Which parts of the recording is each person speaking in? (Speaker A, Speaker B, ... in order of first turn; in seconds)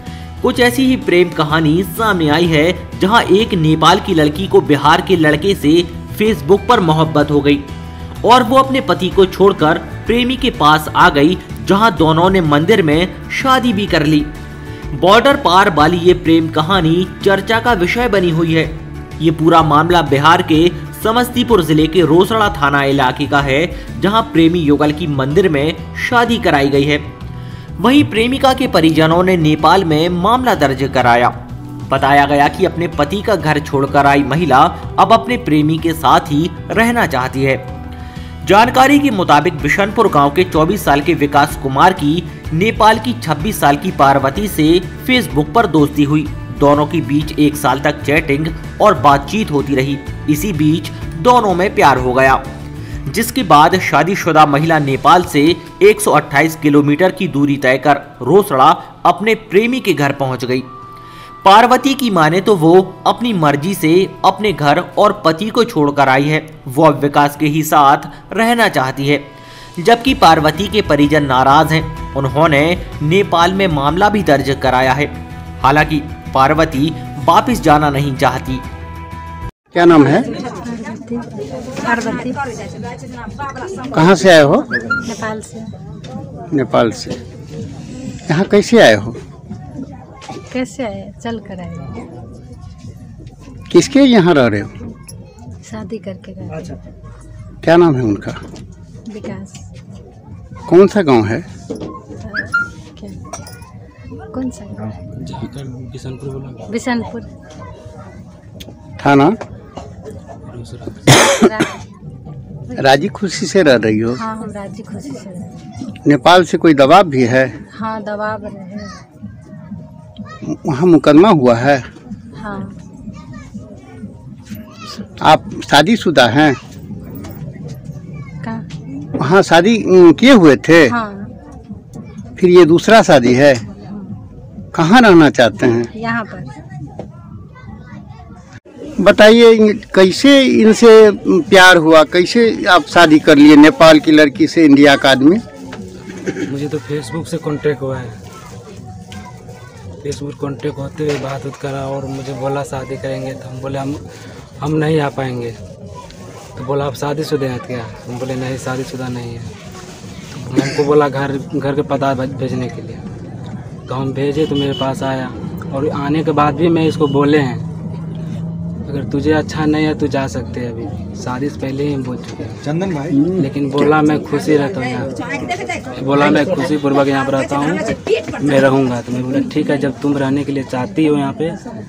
Speaker A: 0.4-7.7, 8.2-14.3, 14.9-27.1, 27.8-31.4, 31.9-37.7, 38.4-52.5, 53.1-60.7, 61.4-78.6
Speaker B: 79.7-80.3, 83.9-84.7, 86.5-87.2, 88.3-89.2, 93.7-94.7, 97.6-98.4, 100.7-101.4, 109.0-109.3, 112.8-114.2, 116.0-117.5, 120.4-121.8, 125.2-126.5, 129.2-130.9, 132.4-133.6, 134.7-135.9, 139.0-145.4
Speaker C: 80.6-81.3, 81.8-82.4, 85.0-85.7, 90.5-91.9, 95.6-96.7, 99.1-99.6, 102.2-103.2, 104.3-104.9, 106.7-107.3, 111.4-111.8, 114.2-115.5, 117.7-119.0, 122.4-122.8, 130.9-131.3, 135.9-136.5
Speaker D: 105.0-106.8, 110.4-111.4, 146.4-148.2, 150.0-154.0, 154.6-155.6, 156.5-159.5, 160.3-163.0, 163.9-167.7, 168.8-175.1, 175.9-181.6